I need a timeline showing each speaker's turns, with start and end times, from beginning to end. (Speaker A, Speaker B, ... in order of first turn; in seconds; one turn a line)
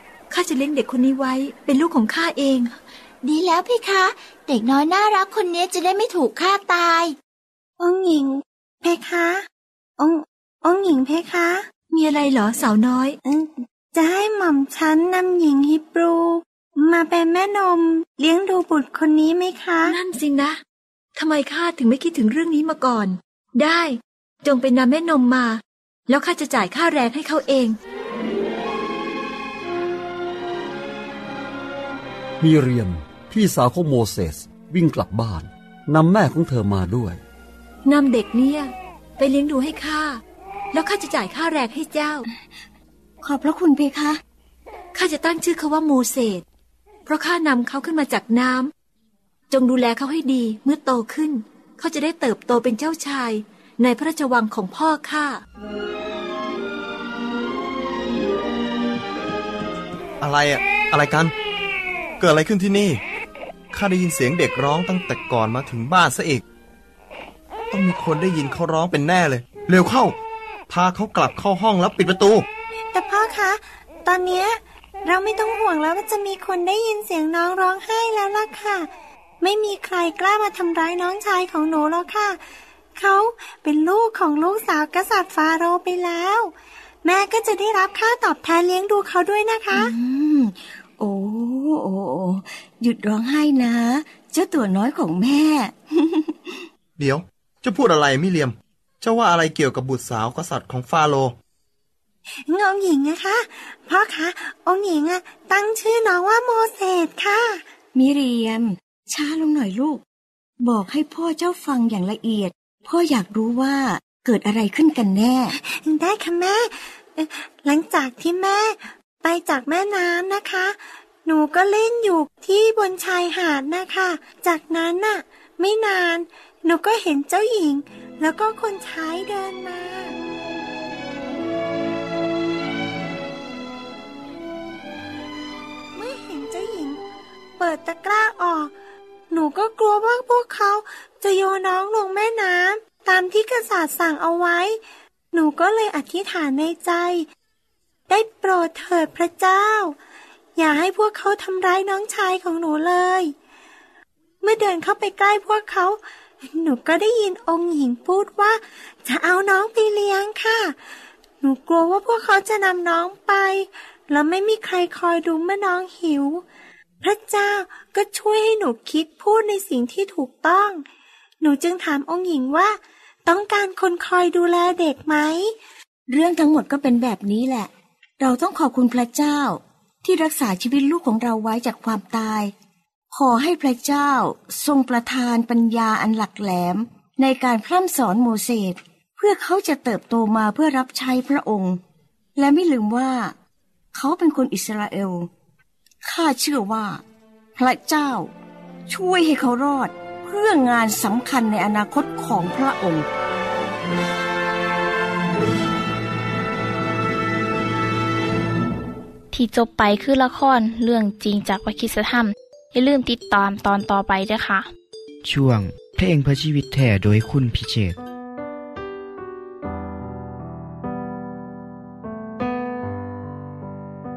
Speaker A: 0.3-2.7
Speaker B: 3.2-7.2
Speaker C: 7.8-9.5
Speaker C: 10.0-11.7
Speaker A: 11.9-13.2
Speaker C: 13.2-19.9
Speaker A: 19.8-20.6
Speaker A: 21.2-27.8
Speaker D: 32.4-37.2
Speaker A: 37.9-40.2
Speaker A: 40.7-42.3
Speaker E: 43.2-44.2
Speaker A: 44.9-46.4
Speaker A: 47.1-48.7
Speaker A: 49.5-55.4
Speaker F: 60.2-61.3
Speaker F: 62.2-63.0
Speaker F: 63.7-66.4
Speaker F: 67.7-70.2
Speaker F: 70.7-72.5
Speaker C: 72.9-78.9
Speaker C: 79.4-82.4
Speaker C: 83.0-89.9
Speaker E: 89.7-96.7
Speaker F: 97.0-101.3
Speaker C: 102.5-107.6
Speaker E: 107.9-110.0
Speaker E: 110.6-115.5
Speaker C: 115.5-130.2
Speaker C: 135.9-137.0
Speaker C: 137.6-138.7
Speaker C: 139.3-144.8
Speaker C: 145.3-147.3
Speaker C: 148.1-150.0
Speaker C: 150.6-153.3
Speaker C: 154.4-160.8
Speaker C: 161.4-166.4
Speaker C: 167.0-170.8
Speaker C: 171.4-175.5
Speaker E: 176.1-182.5
Speaker E: 183.1-191.8
Speaker E: 192.4-193.3
Speaker E: 193.9-195.3
Speaker E: 196.0-197.0
Speaker E: 197.6-198.3
Speaker E: 198.9-203.1
Speaker G: 209.3-214.7
Speaker H: 215.2-218.0